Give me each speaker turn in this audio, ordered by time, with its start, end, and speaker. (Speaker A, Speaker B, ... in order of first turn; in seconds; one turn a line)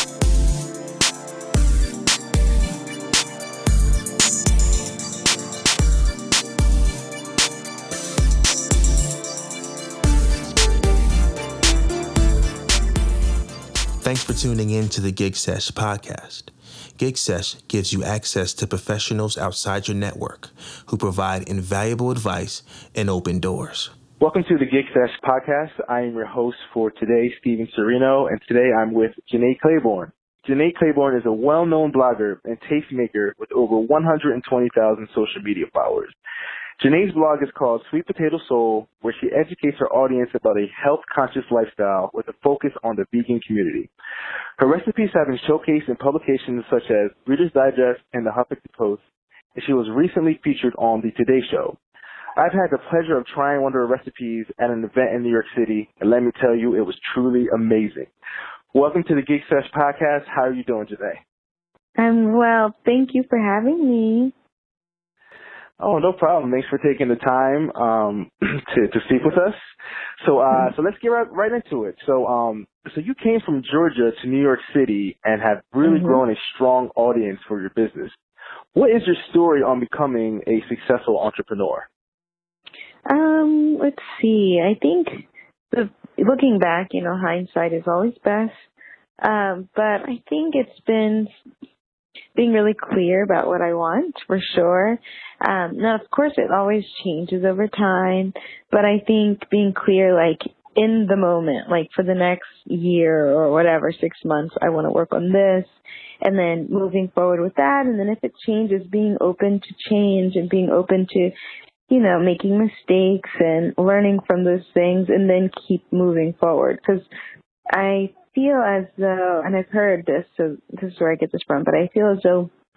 Speaker A: 14.0-23.9
Speaker B: 24.2-36.2
Speaker B: 36.8-43.9
Speaker B: 44.6-49.0
Speaker B: 49.5-51.8
Speaker B: 52.4-58.1
Speaker B: 58.7-61.2
Speaker C: 62.0-64.3
Speaker B: 65.8-69.5
Speaker B: 70.2-78.2
Speaker C: 75.8-76.2
Speaker B: 78.8-81.9
Speaker C: 83.1-88.6
Speaker C: 89.2-91.3
Speaker C: 92.3-105.7
Speaker C: 106.2-111.3
Speaker C: 111.9-117.0
Speaker C: 117.7-122.5